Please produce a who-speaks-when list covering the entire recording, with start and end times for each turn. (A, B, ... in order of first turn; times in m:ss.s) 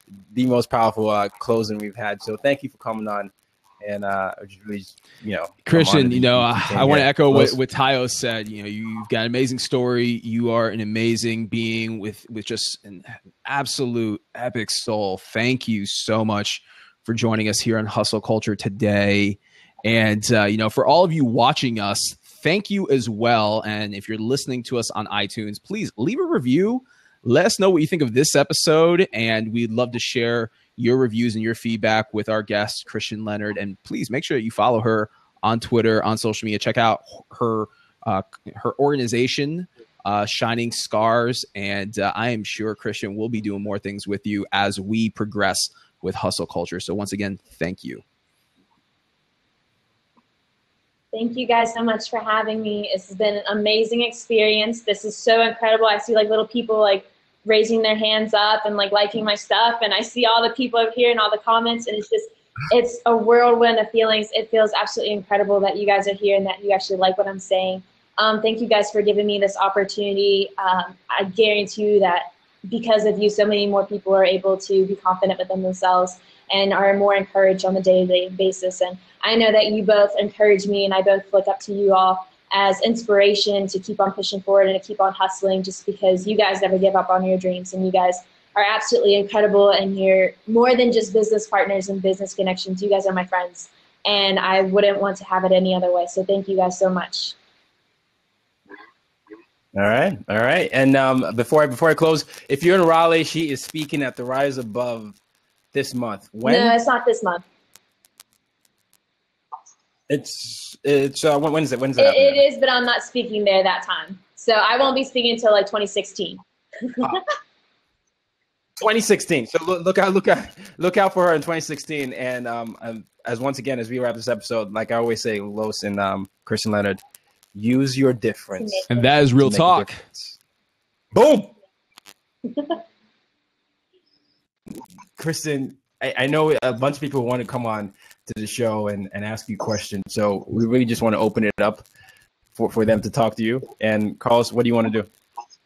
0:00.3-0:07.6 A
0:05.6-0:48.0 B
0:51.1-1:37.4 C
1:39.7-1:45.2 A
1:45.7-1:46.8 A
1:46.4-1:47.4 C
1:50.1-1:52.4 A
1:52.0-1:57.2 C
1:58.8-2:07.0 A
2:07.5-2:10.4 A
2:08.6-2:08.8 C
2:08.9-2:10.0 B
2:11.1-2:11.5 A
2:12.5-2:12.8 C
2:15.2-2:21.8 A
2:22.6-2:25.1 A